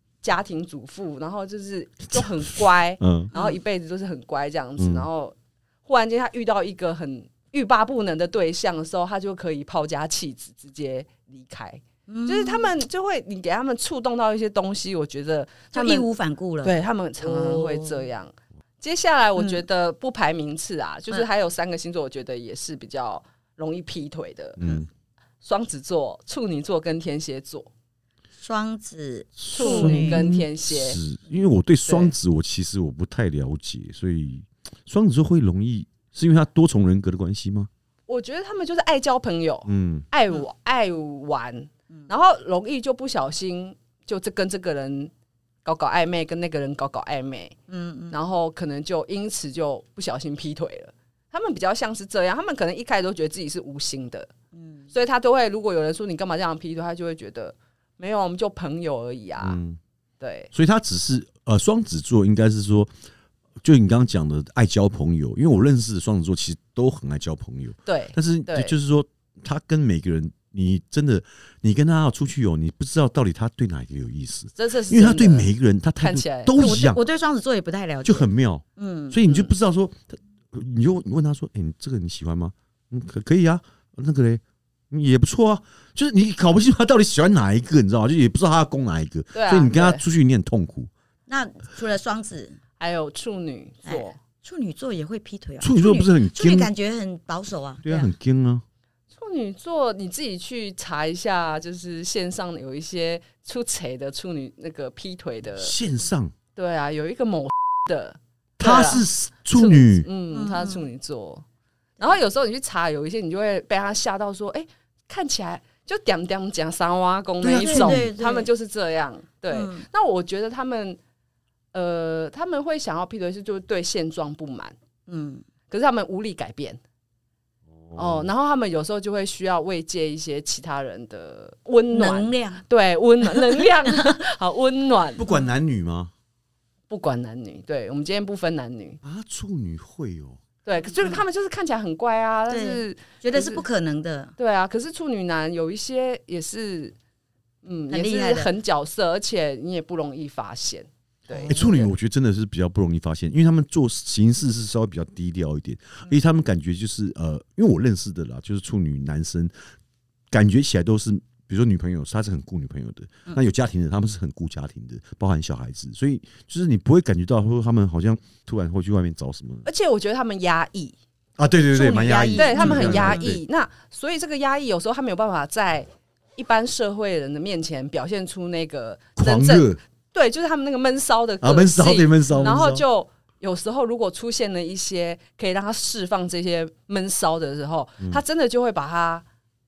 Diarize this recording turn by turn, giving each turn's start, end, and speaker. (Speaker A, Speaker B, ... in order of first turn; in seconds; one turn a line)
Speaker A: 0.2-16.1
Speaker B: 3.0-3.3
Speaker C: 3.3-3.6
Speaker B: 4.8-5.1
Speaker C: 12.1-12.7
Speaker C: 15.7-18.1
Speaker A: 16.6-24.6
Speaker C: 19.4-19.6
Speaker B: 24.6-24.9
Speaker A: 25.4-27.7
Speaker C: 28.4-30.2
Speaker B: 29.4-37.7
Speaker A: 29.5-31.0
Speaker A: 31.8-32.1
Speaker A: 38.1-45.1
Speaker B: 39.7-40.0
Speaker A: 45.6-47.5
Speaker C: 47.7-48.2
Speaker A: 48.1-54.3
Speaker C: 54.5-54.9
Speaker A: 54.9-59.6
Speaker B: 59.4-59.8
Speaker A: 60.2-60.5
Speaker B: 60.5-62.9
Speaker B: 63.6-77.0
Speaker A: 67.8-68.8
Speaker A: 74.5-76.5
Speaker C: 76.5-79.2
Speaker B: 78.0-90.9
Speaker A: 89.3-90.0
Speaker C: 91.3-92.6
Speaker A: 92.8-94.2
Speaker C: 93.8-98.1
Speaker B: 95.6-96.7
Speaker B: 97.8-98.6
Speaker A: 99.1-105.7
Speaker B: 105.5-106.3
Speaker A: 106.5-111.4
Speaker B: 108.6-110.1
Speaker C: 110.3-110.9
Speaker A: 112.0-121.0
Speaker B: 117.4-118.1
Speaker C: 117.6-118.5
Speaker C: 119.5-119.8
Speaker A: 121.7-124.8
Speaker C: 125.1-125.4
Speaker A: 125.7-126.8
Speaker B: 127.7-128.3
Speaker A: 128.0-135.2
Speaker C: 131.9-132.6
Speaker C: 133.2-134.1
Speaker B: 135.2-136.1
Speaker A: 136.9-139.0
Speaker B: 139.0-140.4
Speaker A: 140.6-143.6
Speaker C: 141.0-141.2
Speaker C: 142.5-144.3
Speaker A: 144.4-146.9
Speaker A: 147.6-151.6
Speaker C: 147.9-148.5
Speaker C: 151.3-151.9
Speaker B: 151.4-159.5
Speaker B: 160.3-169.7
Speaker A: 169.6-170.9
Speaker B: 171.4-173.4
Speaker C: 171.7-173.2
Speaker A: 172.3-189.2
Speaker B: 179.2-179.8
Speaker B: 181.4-182.8
Speaker C: 182.3-182.6